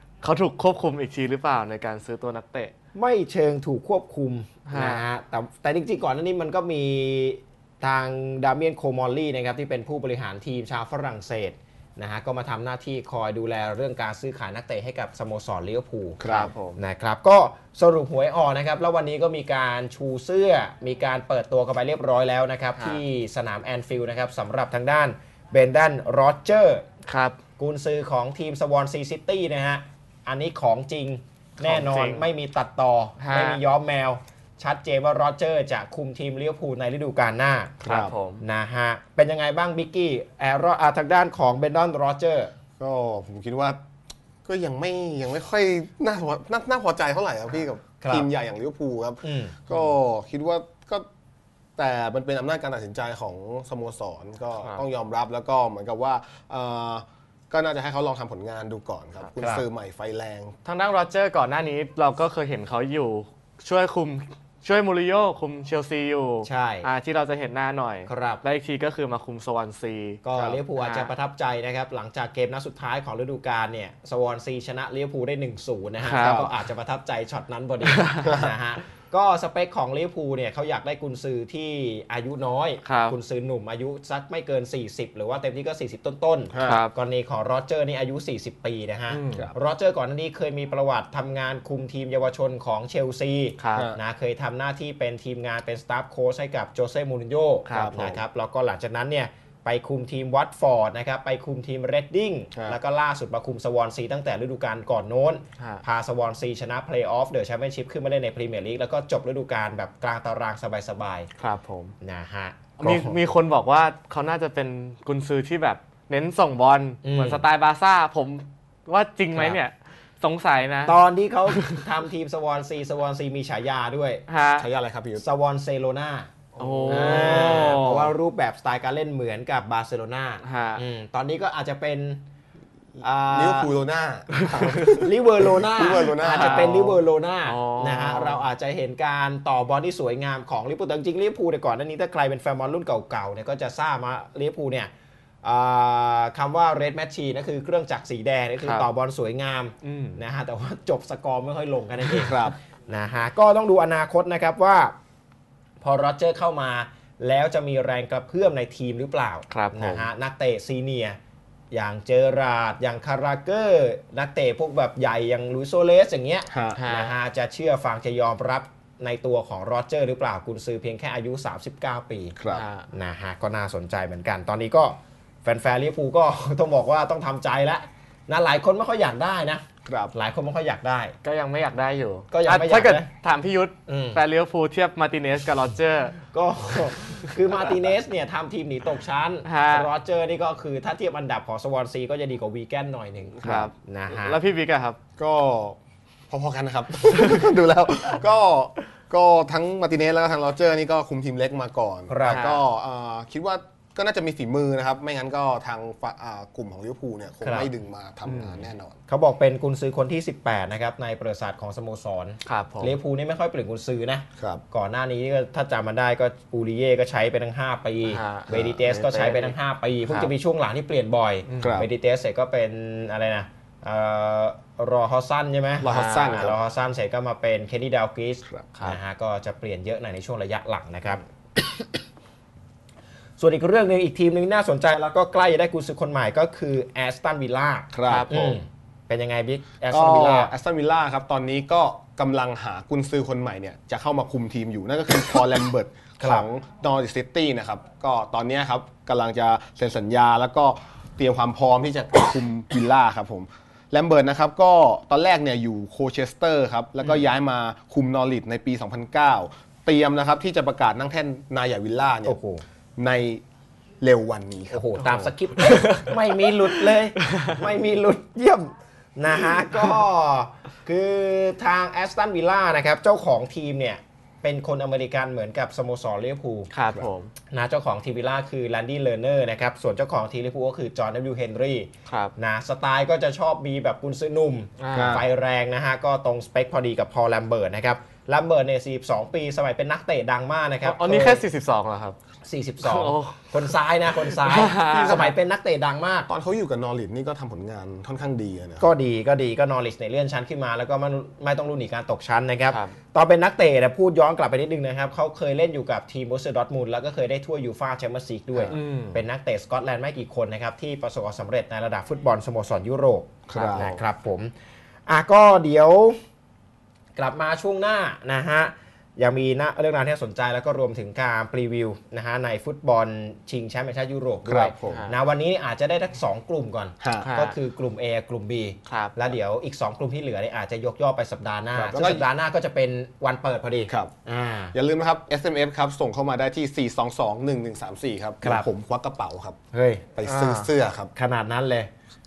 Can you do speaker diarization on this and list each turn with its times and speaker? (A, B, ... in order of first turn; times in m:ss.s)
0:00.2-0:02.7 A
0:03.0-0:26.8 B
0:04.7-0:05.0 A
0:16.2-0:16.5 C
0:16.2-0:16.8 A
0:22.8-0:23.0 A
0:27.1-0:27.4 A
0:27.6-0:37.8 B
0:31.6-0:32.3 A
0:33.2-0:33.6 A
0:37.8-0:38.2 C
0:37.8-0:38.4 A
0:38.4-0:42.5 B
0:42.8-0:43.8 C
0:44.4-0:51.1 C
0:48.0-0:48.3 B
0:49.2-0:49.6 B
0:51.8-1:00.6 C
0:59.4-0:59.6 B
1:00.6-1:10.2 A
1:06.4-1:06.9 B
1:08.1-1:08.4 B
1:10.2-1:51.3 B
1:10.3-1:10.6 C
1:10.8-1:11.1 A
1:16.0-1:16.5 A
1:16.2-1:16.5 C
1:17.9-1:18.3 A
1:18.3-1:18.5 C
1:22.8-1:23.2 A
1:26.5-1:26.8 C
1:26.6-1:26.9 A
1:29.1-1:29.5 A
1:33.6-1:33.9 A
1:37.7-1:38.0 A
1:37.7-1:38.2 C
1:51.4-1:52.0 A
1:52.0-1:53.2 B
1:52.8-2:00.9 A
1:57.0-1:57.4 B
2:00.9-2:04.2 B
2:04.3-2:04.7 A
2:04.6-2:05.2 C
2:05.2-2:06.3 B
2:06.6-2:07.8 C
2:06.6-2:08.1 A
2:06.9-2:12.2 B
2:10.4-2:10.8 A
2:13.0-2:13.7 B
2:13.3-2:16.9 C
2:14.4-2:15.0 A
2:14.9-2:24.9 B
2:16.0-2:18.4 A
2:25.4-2:34.9 B
2:28.6-2:28.9 A
2:29.8-2:30.2 A
2:32.1-2:32.6 C
2:35.8-2:41.2 B
2:39.5-2:40.1 A
2:41.7-2:52.4 B
2:46.5-2:46.8 C
2:46.8-2:47.2 A
2:52.4-2:52.6 C
2:52.5-2:52.9 A
2:52.9-3:01.2 B
2:59.8-3:00.1 C
3:01.2-3:06.2 A
3:02.3-3:03.1 B
3:03.9-3:04.2 B
3:06.3-3:14.4 B
3:09.4-3:09.9 A
3:13.4-3:15.0 A
3:15.2-3:15.8 C
3:16.3-3:29.0 C
3:22.1-3:22.6 B
3:22.2-3:22.6 A
3:27.4-3:27.7 B
3:28.3-3:28.7 A
3:29.1-3:51.9 B
3:32.4-3:33.0 A
3:38.1-3:39.6 A
3:41.5-3:41.8 A
3:41.6-3:41.9 C
3:45.8-3:46.6 C
3:45.8-3:46.5 A
3:48.7-3:49.0 A
3:53.4-4:00.5 B
3:57.9-3:58.5 C
3:58.1-3:58.5 A
3:59.9-4:22.4 C
4:06.2-4:06.5 B
4:22.2-4:22.6 B
4:23.0-4:23.4 C
4:24.0-4:25.4 C
4:24.7-4:36.7 B
4:25.6-4:27.5 A
4:36.7-4:37.3 A
4:37.5-4:51.4 B
4:42.1-4:42.3 A
4:44.8-4:45.2 A
4:44.9-4:45.2 C
4:50.8-4:52.2 A
4:52.4-4:56.3 B
4:52.8-4:55.3 A
4:54.9-4:55.3 C
4:56.3-4:58.9 C
4:58.8-5:14.5 B
5:02.7-5:03.0 A
5:08.7-5:09.2 A
5:13.5-5:14.0 C
5:13.6-5:14.0 A
5:15.1-5:16.2 B
5:17.2-5:34.7 B
5:24.4-5:25.1 C
5:24.9-5:25.1 A
5:27.0-5:27.3 C
5:27.2-5:27.6 A
5:28.9-5:29.1 A
5:31.8-5:32.3 C
5:34.7-5:39.6 C
5:38.4-5:38.7 B
5:39.7-5:40.2 B
5:40.2-5:41.1 C
5:40.3-5:40.7 A
5:41.2-5:41.9 B